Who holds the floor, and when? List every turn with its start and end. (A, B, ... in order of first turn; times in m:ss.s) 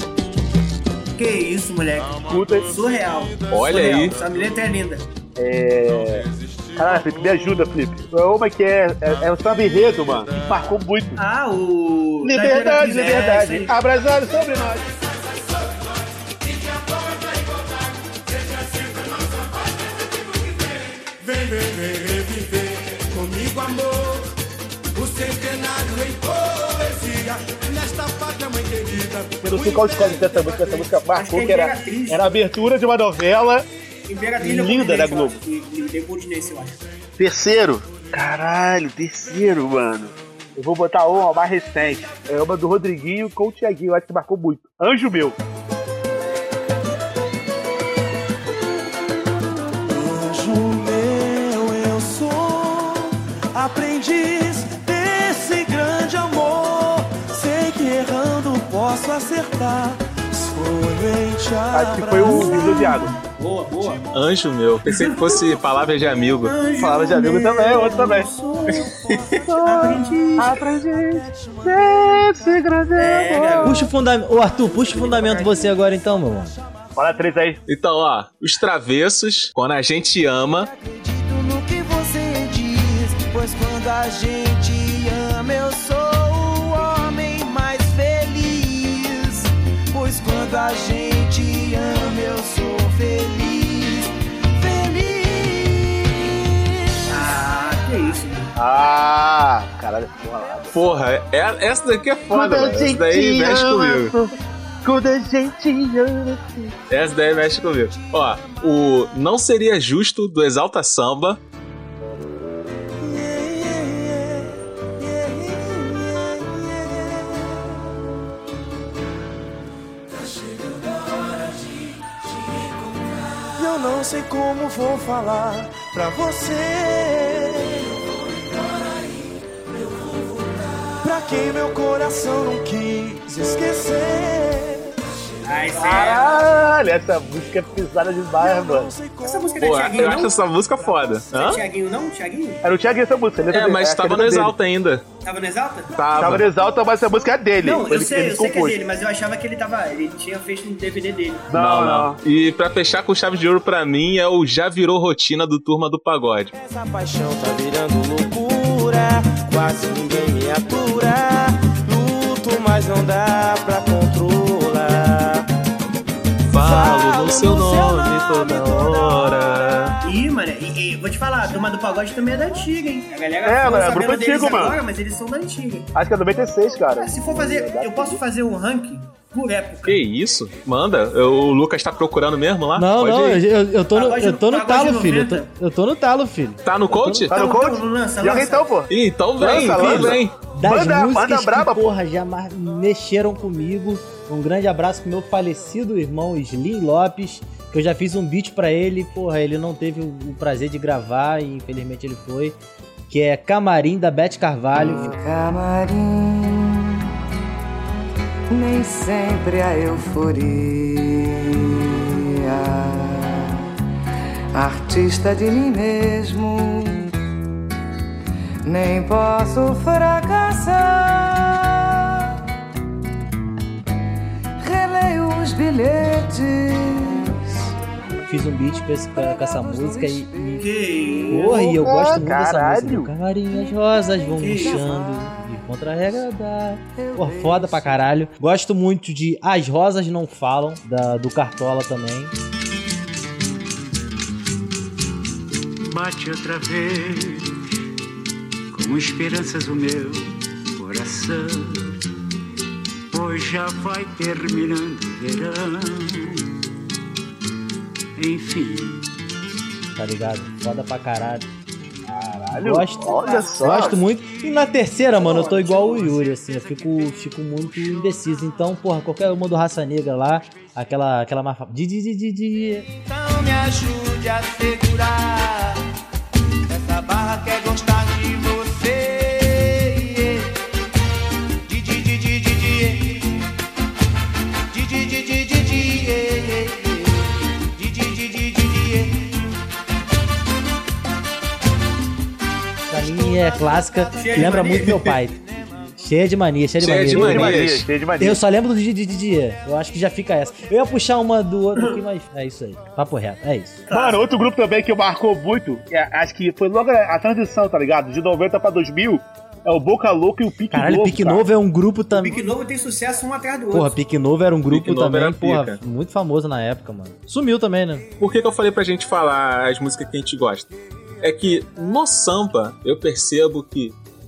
0:01.2-0:05.1 A
0:02.2-0:02.8 B
0:03.5-0:04.2 C
0:05.4-0:11.2 B
0:11.2-0:13.7 A
0:12.2-0:14.9 B
0:21.2-0:24.2 D
0:25.0-0:30.9 D
0:29.4-0:33.7 B
0:31.1-0:32.3 A
0:34.1-0:36.8 A
0:34.4-0:35.4 B
0:37.2-0:45.4 B
0:49.9-1:02.9 D
1:01.7-1:03.2 B
1:02.2-1:04.1 A
1:04.1-1:06.6 C
1:04.9-1:10.7 A
1:06.8-1:13.9 B
1:13.0-1:13.9 A
1:13.6-1:16.6 E
1:14.7-1:15.7 A
1:17.0-1:17.6 B
1:17.7-1:20.7 C
1:21.1-1:36.6 F
1:37.1-1:38.5 A
1:38.6-1:40.8 B
1:40.7-1:44.1 C
1:42.3-1:46.8 B
1:46.9-1:51.4 C
1:53.0-1:57.2 D
2:03.6-2:08.0 D
2:11.0-2:15.0 D
2:15.4-2:16.5 A
2:15.8-2:19.0 B
2:18.4-2:19.9 D
2:19.2-2:20.4 A
2:19.6-2:21.6 C
2:21.3-2:22.6 A
2:22.6-2:24.6 B
2:23.5-2:25.0 C
2:25.2-2:26.4 A
2:26.0-2:26.5 C
2:26.2-2:28.8 B
2:27.6-2:31.5 A
2:31.5-2:32.2 B
2:31.5-2:36.5 C
2:36.6-2:45.3 F
2:46.5-2:50.0 C
2:47.5-2:47.9 D
2:47.8-2:49.7 F
2:50.0-2:55.9 A
2:53.4-2:54.8 B
2:56.0-2:58.2 B
2:57.0-3:00.0 A
2:59.8-3:03.4 C
3:02.8-3:07.3 E
3:03.9-3:05.5 A
3:06.6-3:07.3 C
3:07.3-3:11.8 B
3:07.3-3:08.7 A
3:08.9-3:10.4 C
3:09.7-3:22.6 E
3:23.1-3:25.2 E
3:24.8-3:27.0 G
3:28.5-3:33.5 G
3:34.6-3:37.1 G
3:38.6-3:41.9 G
3:44.6-3:47.7 G
3:48.3-3:50.7 E
3:49.1-3:51.3 G
3:50.6-3:51.6 A
3:51.3-4:02.3 E
3:51.3-3:53.1 B
3:53.5-3:56.2 G
3:54.4-3:54.9 A
3:56.9-3:58.2 G
4:05.8-4:07.6 H
4:08.7-4:12.0 H
4:13.1-4:16.6 H
4:18.2-4:19.1 H
4:20.0-4:21.5 E
4:22.0-4:24.0 B
4:22.5-4:32.9 E
4:23.1-4:24.0 A
4:25.1-4:26.2 A
4:26.4-4:28.5 H
4:33.0-4:35.8 F
4:36.7-4:40.5 F
4:41.7-4:43.4 F
4:44.7-4:49.4 F
4:52.9-4:57.6 E
4:54.1-4:55.2 A
4:56.8-4:57.9 C
4:57.1-4:58.4 B
4:58.2-5:03.8 E
5:03.9-5:04.2 A
5:03.9-5:11.5 B
5:10.7-5:12.4 E
5:12.1-5:14.0 A
5:13.7-5:18.1 E
5:14.7-5:15.8 C
5:18.2-5:24.0 C